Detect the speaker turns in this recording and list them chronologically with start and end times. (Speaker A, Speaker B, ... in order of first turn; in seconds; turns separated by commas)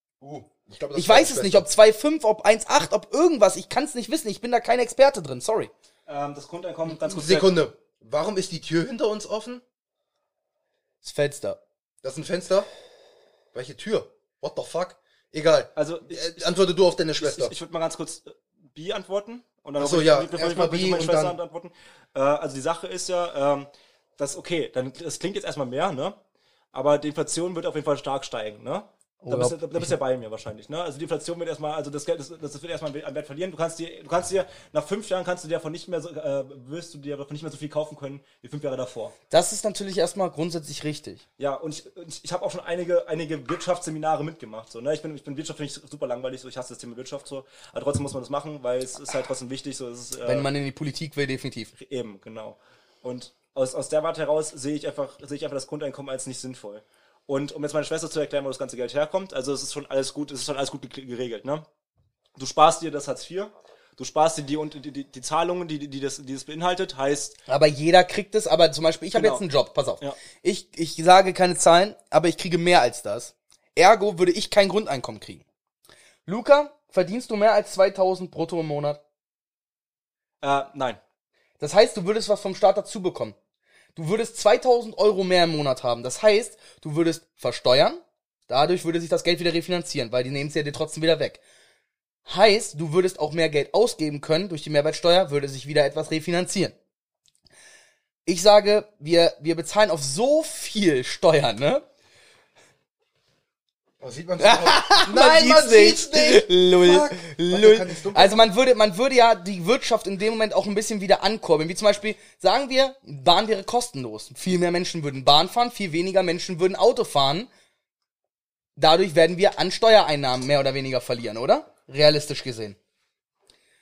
Speaker A: 0.2-1.7, Speaker B: 0.9-5.7, Speaker C: 6.1-7.5, Speaker A: 6.9-9.6, Speaker B: 11.0-11.6, Speaker A: 12.0-12.7, Speaker A: 13.5-17.5, Speaker C: 15.8-16.5, Speaker C: 17.2-26.2, Speaker A: 19.8-21.4, Speaker C: 26.7-39.1, Speaker B: 29.2-29.9, Speaker B: 39.3-41.2, Speaker C: 41.4-50.5, Speaker B: 50.2-51.7, Speaker C: 51.8-61.6, Speaker C: 62.4-67.4, Speaker B: 67.5-75.4, Speaker C: 69.1-69.4, Speaker B: 76.2-79.0, Speaker C: 80.4-81.0, Speaker B: 81.6-83.3, Speaker B: 84.0-91.4, Speaker B: 92.2-96.7, Speaker B: 98.2-101.8, Speaker A: 104.0-108.4, Speaker B: 104.4-117.5, Speaker B: 118.8-122.8